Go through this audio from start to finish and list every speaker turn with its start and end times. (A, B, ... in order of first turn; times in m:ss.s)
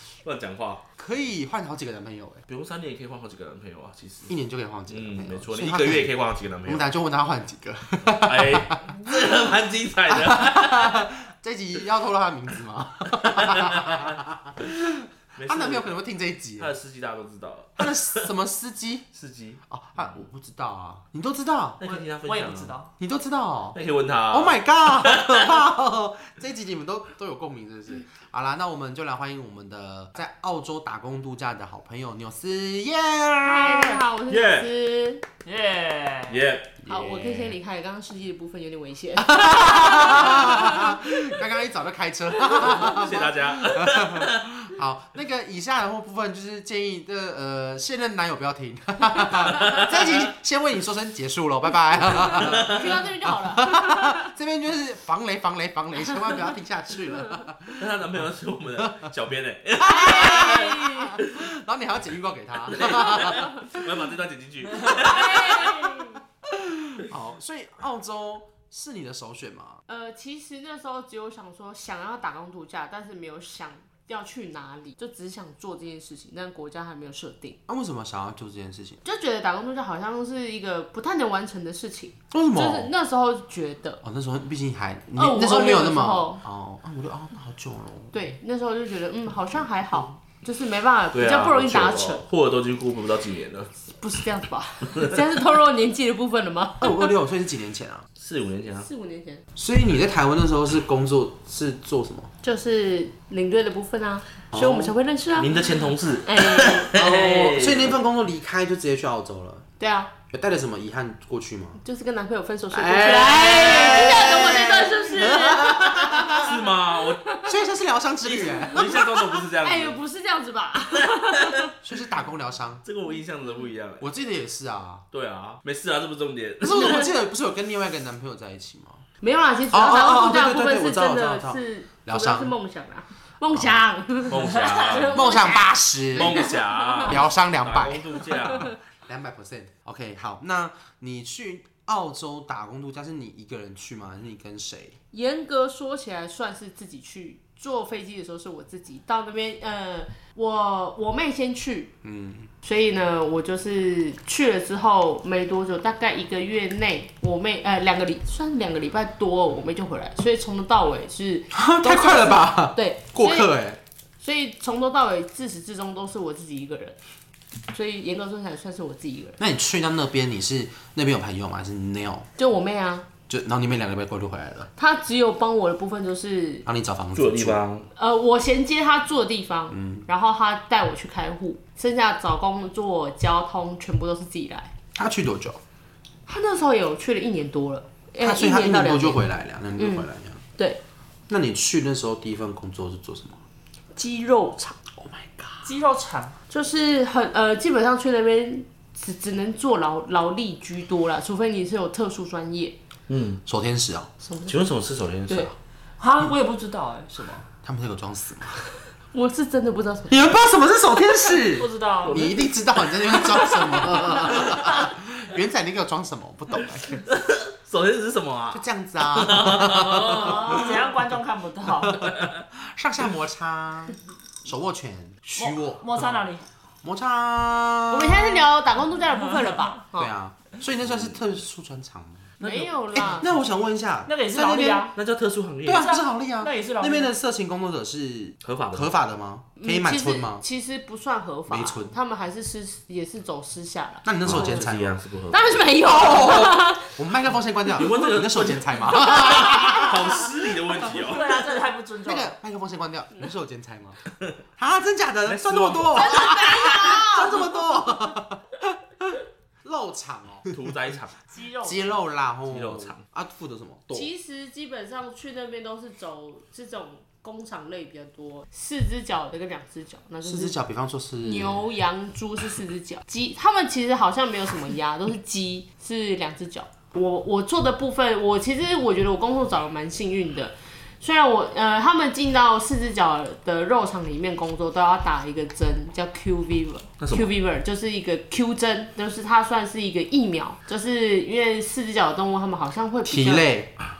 0:00.2-0:00.8 A
0:01.0-0:02.4 B
0:02.5-0:04.3 A
0:04.3-0:06.1 B
0:04.9-0:06.9 A
0:06.7-0:08.8 B
0:08.1-0:11.1 A
0:10.1-0:16.7 B
0:13.1-0:14.2 A
0:15.3-0:16.0 A
0:16.6-0:18.3 A
0:17.8-0:19.1 B
0:19.1-0:19.6 A
0:19.7-0:21.8 B
0:21.8-0:22.8 A
0:21.9-0:22.9 C
0:23.0-0:23.8 B
0:23.7-0:25.4 A
0:24.3-0:34.0 B
0:33.4-0:35.2 D
0:34.3-0:34.7 A
0:35.4-0:36.4 C
0:36.3-0:36.8 A
0:36.9-0:40.9 D
0:37.0-0:37.3 B
0:39.2-0:58.1 B
0:42.4-0:44.5 A
0:49.6-0:50.0 A
0:52.3-0:54.3 D
0:52.4-0:52.8 A
0:57.7-1:01.4 A
0:58.8-0:59.1 B
0:59.8-1:03.9 B
0:59.9-1:00.9 D
1:02.7-1:05.9 A
1:04.8-1:06.2 D
1:06.4-1:09.8 B
1:09.9-1:17.6 D
1:17.7-1:19.0 B
1:19.0-1:24.0 D
1:22.3-1:22.9 B
1:24.0-1:28.1 B
1:25.2-1:26.4 D
1:28.1-1:32.2 D
1:31.1-1:33.7 A
1:33.9-1:37.1 D
1:36.8-1:38.1 B
1:38.2-1:38.9 A
1:38.8-1:39.4 D
1:39.6-1:42.3 B
1:42.4-1:45.7 D
1:44.5-1:45.0 B
1:45.4-1:48.0 A
1:46.2-1:47.3 D
1:46.8-1:49.6 B
1:49.8-1:50.1 D
1:50.3-1:51.8 B
1:51.8-1:56.6 D
1:52.7-1:56.6 B
1:53.4-1:54.4 A
1:56.3-1:57.2 A
1:57.2-1:57.5 D
1:57.4-1:59.1 B
1:58.2-2:00.0 A
1:58.3-2:01.7 D
2:01.1-2:01.5 A
2:01.8-2:02.8 B
2:02.8-2:04.1 A
2:04.0-2:05.0 B
2:05.1-2:07.1 A
2:06.6-2:09.0 B
2:09.2-2:15.6 D
2:09.7-2:12.5 B
2:14.3-2:15.2 A
2:14.4-2:15.6 C
2:15.1-2:25.0 B
2:16.1-2:18.7 A
2:16.2-2:16.6 D
2:25.1-2:31.9 D
2:32.0-2:32.5 B
2:32.6-2:43.5 D
2:41.5-2:43.8 B
2:44.2-2:47.0 D
2:47.7-2:49.4 D
2:49.4-2:52.3 B
2:52.4-2:53.1 D
2:53.3-2:54.7 B
2:54.8-2:56.6 D
2:56.6-2:57.6 B
2:57.1-2:57.9 A
2:58.0-3:04.7 D
2:59.7-3:00.1 B
3:04.9-3:05.6 B
3:06.3-3:09.2 D
3:08.2-3:10.4 B
3:09.8-3:10.8 D
3:11.3-3:13.4 B
3:14.0-3:14.8 D
3:15.0-3:15.7 B
3:15.6-3:16.4 C
3:16.5-3:22.8 D
3:23.1-3:23.4 A
3:23.4-3:24.1 B
3:24.2-3:24.5 D
3:24.5-3:25.5 A
3:26.0-3:27.4 C
3:27.6-3:28.7 B
3:29.1-3:30.3 D
3:30.1-3:37.1 B
3:31.5-3:32.3 C
3:32.0-3:32.5 A
3:37.1-3:40.9 A
3:38.5-3:40.9 B
3:40.0-3:42.1 C
3:41.7-3:46.3 B
3:42.0-3:42.4 A
3:45.4-3:46.4 C
3:46.8-3:48.5 B
3:47.9-3:50.1 D
3:50.0-3:52.3 B
3:52.4-3:53.4 D
3:52.4-3:52.7 A
3:52.9-3:54.8 B
3:54.1-3:54.9 C
3:54.4-3:54.9 D
3:54.9-3:55.9 A
3:55.6-4:00.4 B
3:55.7-3:57.1 C
3:58.4-3:58.9 A
3:59.6-4:04.6 D
4:01.5-4:01.9 B
4:04.0-4:05.0 B
4:04.2-4:05.6 A
4:05.3-4:07.0 D
4:05.8-4:10.2 B
4:07.7-4:11.4 A
4:09.2-4:09.9 D
4:10.9-4:12.3 C
4:12.0-4:14.0 B
4:14.6-4:20.6 B
4:15.2-4:16.9 A
4:15.9-4:17.5 D
4:20.5-4:21.2 A
4:21.3-4:22.0 C
4:21.6-4:24.1 B
4:22.5-4:23.0 A
4:23.9-4:30.6 D
4:30.2-4:31.6 B
4:31.2-4:53.5 D
4:47.0-4:47.3 A
4:53.0-4:53.7 B